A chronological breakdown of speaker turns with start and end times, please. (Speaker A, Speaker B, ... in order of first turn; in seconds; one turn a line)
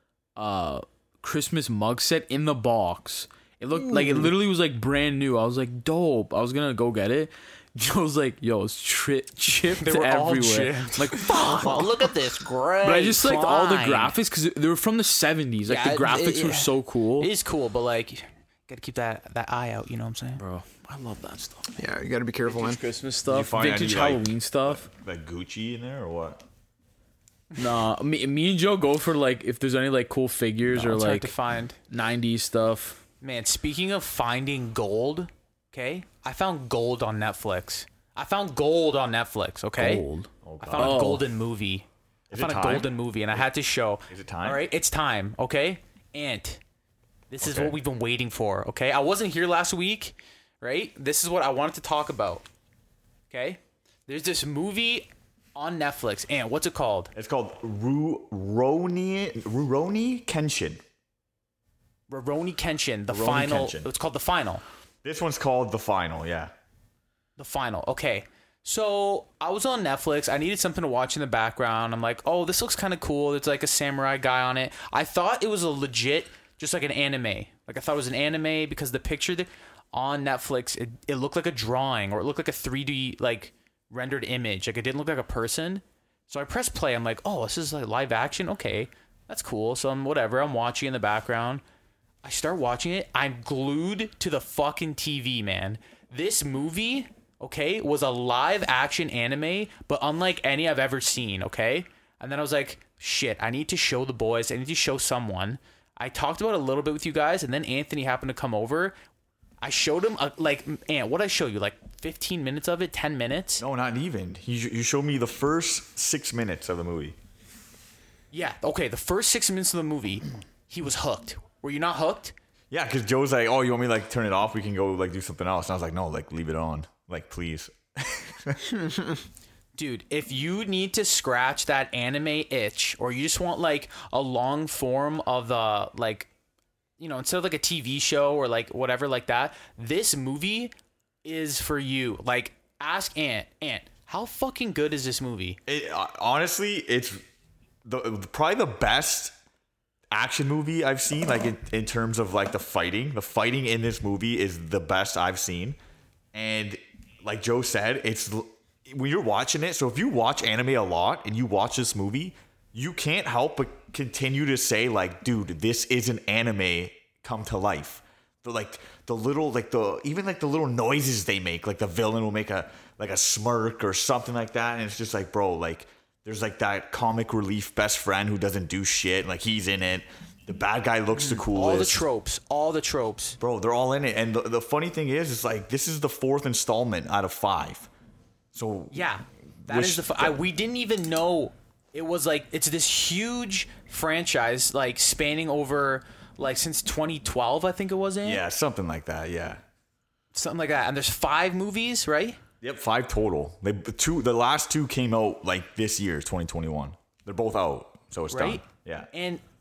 Speaker A: 0.3-12.1
Speaker B: 3.8-4.3
Speaker C: 9.8-14.2
Speaker A: 12.8-17.3
Speaker C: 15.6-20.4
Speaker A: 20.4-21.8
Speaker B: 21.8-22.8
Speaker A: 22.5-24.9
Speaker D: 23.3-26.4
Speaker A: 27.6-31.3
Speaker C: 30.7-31.8
Speaker A: 31.9-33.0
Speaker C: 33.2-40.0
Speaker D: 39.8-41.2
Speaker C: 40.6-46.6
Speaker A: 40.8-41.2
Speaker D: 42.3-43.4
Speaker D: 44.1-44.6
Speaker C: 47.3-52.4
Speaker D: 47.4-47.8
Speaker C: 53.3-57.1
Speaker D: 57.1-60.8
Speaker C: 62.1-64.6
Speaker D: 63.1-63.9
Speaker D: 65.0-66.5
Speaker C: 67.4-91.6
Speaker C: 92.2-109.0
Speaker C: 109.6-113.6
Speaker D: 113.6-117.2
Speaker C: 118.3-122.3
Speaker D: 122.7-128.7
Speaker B: 128.7-129.2
Speaker C: 129.8-136.3
Speaker C: 137.0-140.7
Speaker C: 141.2-145.6
Speaker D: 145.7-147.2
Speaker D: 147.8-149.3
Speaker D: 150.1-155.8
Speaker D: 156.3-182.0
Speaker C: 181.1-183.4
Speaker D: 183.4-187.9
Speaker D: 188.5-189.1
Speaker C: 188.9-198.4
Speaker D: 189.6-190.4
Speaker D: 198.2-199.6
Speaker C: 200.3-202.4
Speaker D: 202.6-209.1
Speaker C: 208.3-209.4